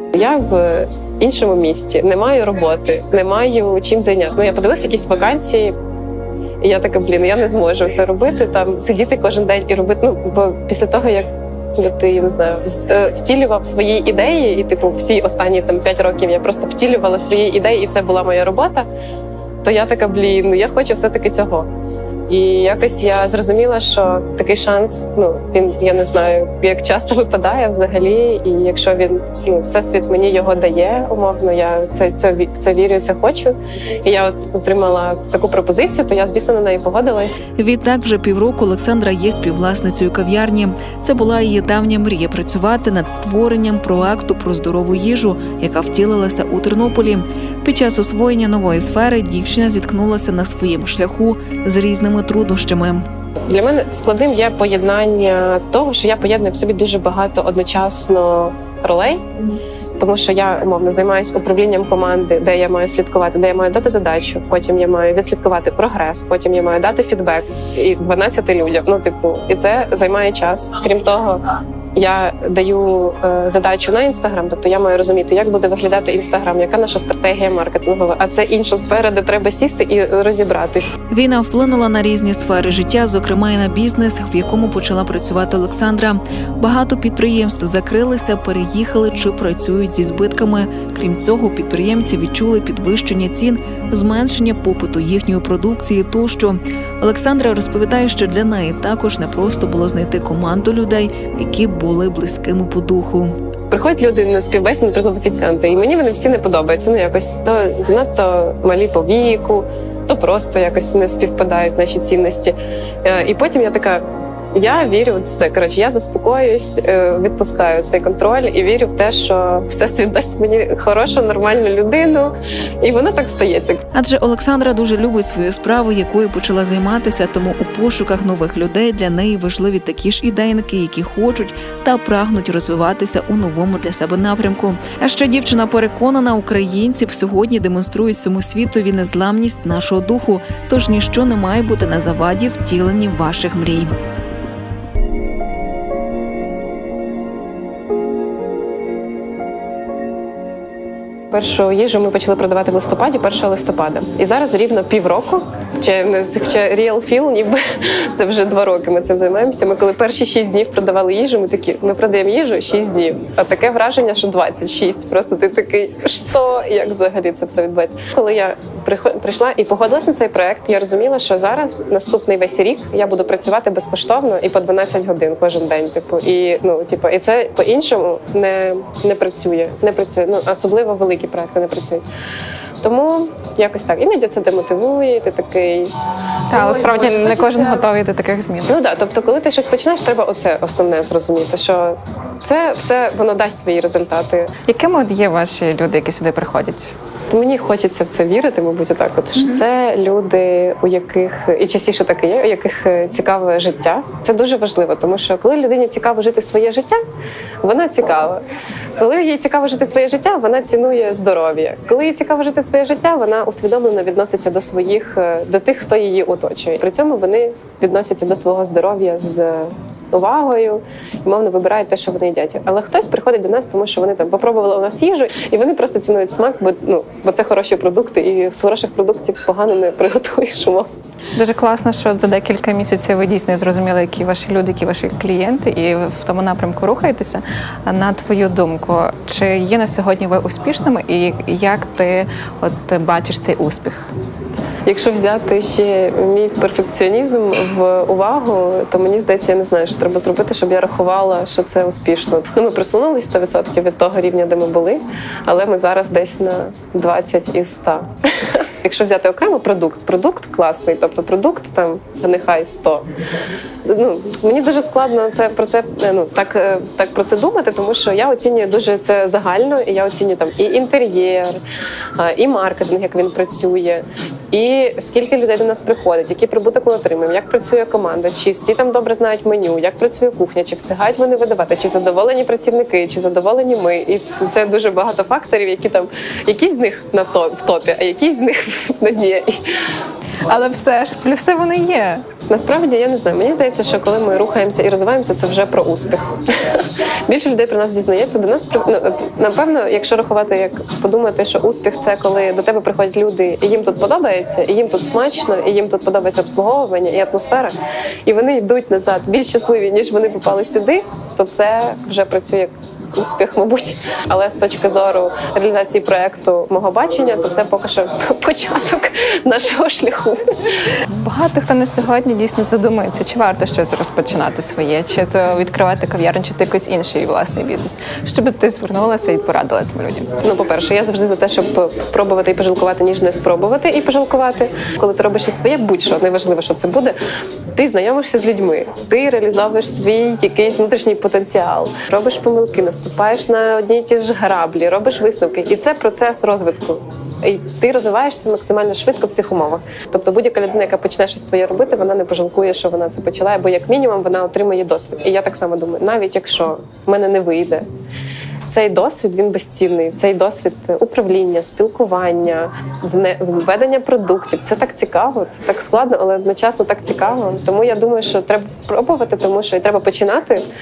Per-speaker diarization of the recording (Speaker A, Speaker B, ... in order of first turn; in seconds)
Speaker A: 0.1-5.7, 6.6-18.9, 19.6-21.7, 22.3-37.4, 53.5-59.2, 60.0-71.4, 71.9-80.9, 103.7-114.0, 114.5-123.8, 151.3-182.0, 182.8-185.9, 186.5-187.9, 188.7-194.5, 197.3-207.0, 207.6-208.4, 209.0-230.9, 244.8-263.1, 263.8-271.6, 272.2-289.6, 292.5-307.7, 308.2-320.4, 330.4-337.1, 337.7-357.9, 358.7-370.6
Speaker B: 37.6-53.0, 81.1-103.3, 123.9-143.9
Speaker C: 186.5-188.8, 194.7-196.9, 199.4-199.6, 231.3-244.1, 290.5-292.2, 321.1-330.3